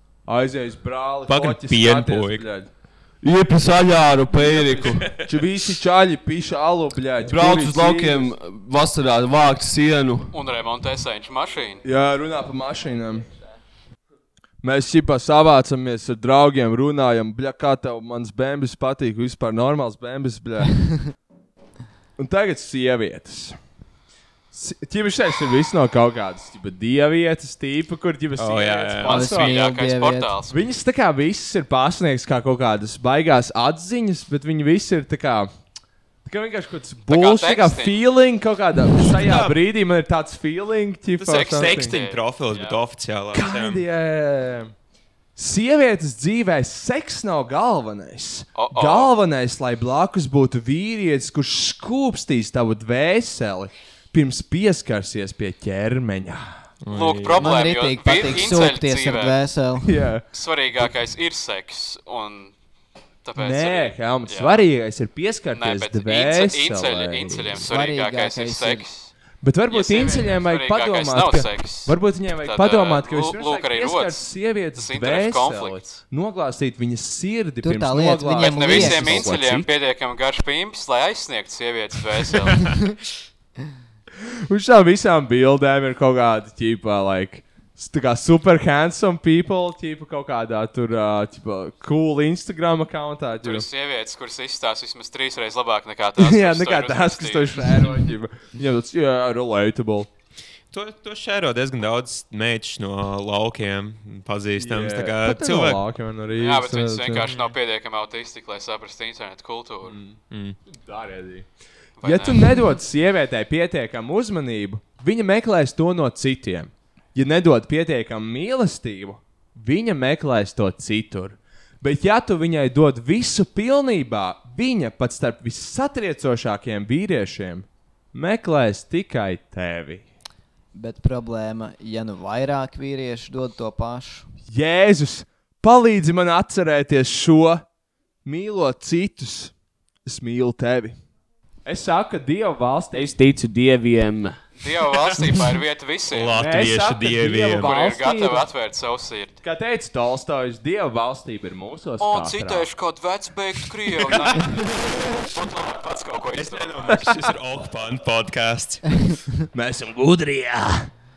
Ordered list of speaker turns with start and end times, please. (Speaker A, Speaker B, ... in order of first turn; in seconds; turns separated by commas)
Speaker A: 0.2-2.7, Speaker B: 1.3-2.5, Speaker C: 3.2-5.1, Speaker A: 4.4-8.3, Speaker B: 4.5-5.4, Speaker C: 7.2-10.3, Speaker D: 10.3-11.8, Speaker A: 11.8-13.3, Speaker A: 14.6-20.9, Speaker A: 22.2-23.6, Speaker A: 24.5-29.6, Speaker B: 28.4-29.1, Speaker D: 29.0-30.6, Speaker E: 29.0-30.3, Speaker A: 30.5-35.5, Speaker A: 36.2-42.0, Speaker D: 37.1-38.0, Speaker B: 39.1-39.6, Speaker B: 41.2-43.8, Speaker D: 41.3-42.8, Speaker A: 43.3-44.7, Speaker A: 45.4-56.6, Speaker D: 48.5-49.1, Speaker B: 56.8-57.5, Speaker D: 56.9-59.4, Speaker E: 57.4-59.9, Speaker A: 59.8-60.2, Speaker D: 60.3-62.5, Speaker D: 63.2-64.7, Speaker A: 63.4-67.7, Speaker D: 65.5-69.1, Speaker E: 67.7-68.9, Speaker A: 69.4-79.7, Speaker D: 69.7-76.0, Speaker E: 77.6-79.3, Speaker D: 78.3-82.8, Speaker A: 84.5-93.7, Speaker D: 93.4-97.9, Speaker A: 96.2-100.1, Speaker B: 100.7-105.8, Speaker A: 104.5-107.3, Speaker D: 106.3-110.0, Speaker B: 107.2-107.5, Speaker A: 109.8-111.5, Speaker B: 110.3-110.6, Speaker D: 112.0-112.5, Speaker A: 112.0-130.0, Speaker E: 130.7-134.3, Speaker A: 134.5-137.7, Speaker A: 138.2-141.0, Speaker A: 141.6-143.2, Speaker C: 142.9-144.4, Speaker D: 144.6-146.4, Speaker B: 144.9-145.6, Speaker B: 146.1-147.7, Speaker A: 146.3-148.5, Speaker D: 147.6-149.4, Speaker A: 149.4-152.7, Speaker D: 152.0-157.2, Speaker B: 154.0-154.6, Speaker B: 156.3-159.1, Speaker A: 159.5-160.9